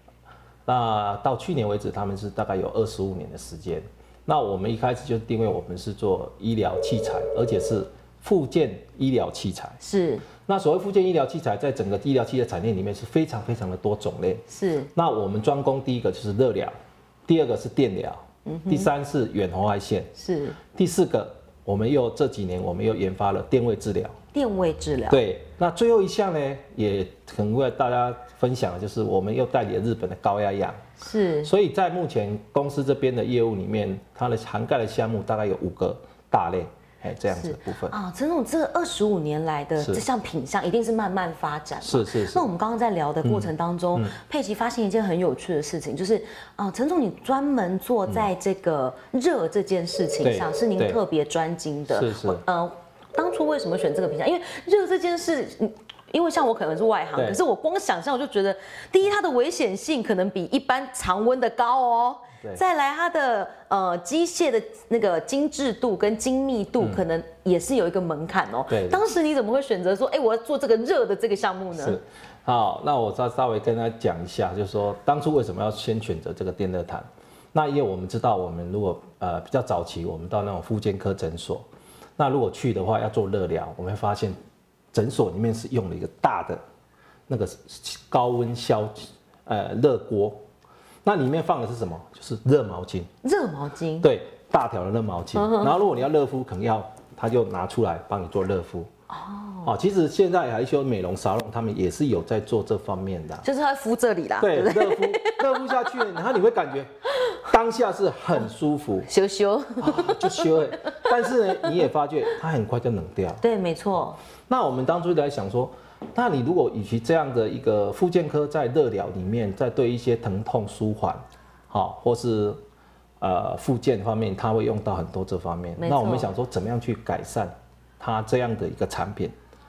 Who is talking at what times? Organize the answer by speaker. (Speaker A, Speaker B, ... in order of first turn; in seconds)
Speaker A: 0.7-9.8, 10.5-14.4, 14.9-16.7, 17.3-20.1, 20.7-24.1, 25.1-30.8, 31.4-38.0, 39.8-40.0, 41.8-42.5, 43.2-44.1, 50.2-51.0, 51.9-52.4, 57.1-57.4, 66.8-67.0, 68.7-69.0, 71.7-81.7, 82.2-84.4, 84.9-86.6, 87.3-90.4, 91.0-93.1, 94.0-98.9, 99.7-103.5, 104.4-109.1, 109.8-113.4, 114.5-122.6, 123.2-129.3
Speaker B: 9.8-10.3, 14.5-14.9, 18.5-18.9, 20.2-20.6, 24.3-25.2, 31.0-31.5, 37.3-72.0, 93.2-94.1, 95.3-95.8, 99.1-99.7, 103.4-106.2, 109.1-111.0, 113.4-114.2, 125.8-126.3